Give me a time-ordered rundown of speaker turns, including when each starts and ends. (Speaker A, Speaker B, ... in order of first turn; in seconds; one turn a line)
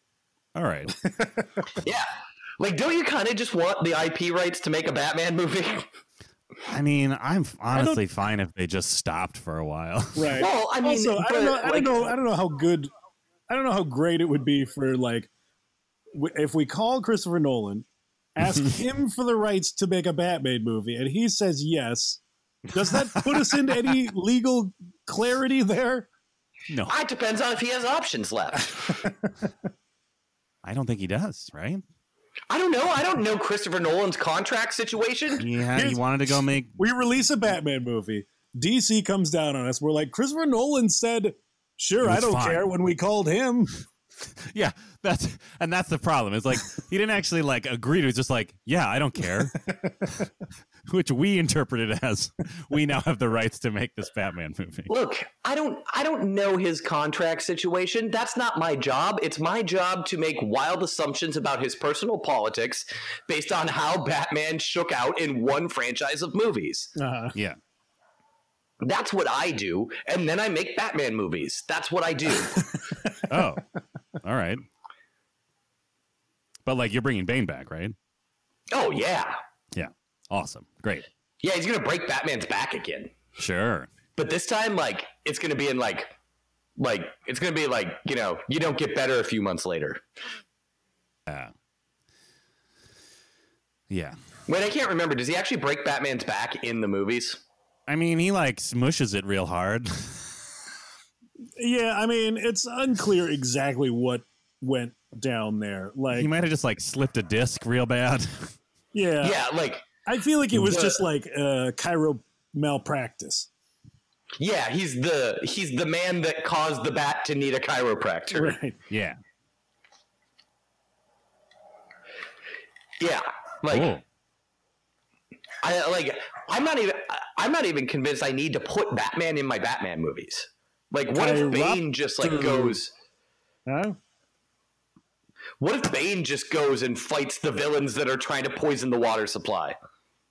Speaker A: 0.5-0.9
Speaker B: 1.0-1.6
Speaker C: 1.8-5.8
Speaker A: 6.7-10.4
Speaker B: 7.7-8.0
Speaker B: 10.2-12.9
Speaker C: 10.3-12.1
Speaker B: 13.5-15.3
Speaker B: 16.1-26.1
Speaker C: 26.9-29.0
Speaker A: 30.6-31.8
Speaker C: 32.5-35.4
Speaker A: 35.4-36.8
Speaker B: 35.7-36.0
Speaker B: 36.8-43.7
Speaker A: 42.0-42.7
Speaker A: 44.4-50.3
Speaker A: 50.9-54.9
Speaker C: 54.9-66.9
Speaker B: 67.0-67.3
Speaker C: 68.8-72.6
Speaker A: 73.3-73.6
Speaker A: 74.2-74.6
Speaker A: 76.7-78.0
Speaker C: 78.7-79.4
Speaker A: 79.7-81.0
Speaker C: 81.4-83.1
Speaker A: 83.4-83.9
Speaker C: 84.2-86.1
Speaker C: 86.8-90.0
Speaker A: 91.3-91.5
Speaker A: 93.9-94.2
Speaker C: 94.5-97.4
Speaker A: 97.9-100.4
Speaker B: 101.6-106.3
Speaker A: 106.1-108.5
Speaker B: 108.9-109.4
Speaker C: 109.2-109.9
Speaker B: 110.0-113.5
Speaker C: 110.6-111.0
Speaker C: 114.4-118.5
Speaker B: 118.3-118.8
Speaker A: 118.9-119.2
Speaker C: 123.0-123.9
Speaker A: 123.7-124.0
Speaker C: 125.6-132.9
Speaker B: 131.1-132.8
Speaker B: 133.7-134.0
Speaker C: 135.6-139.8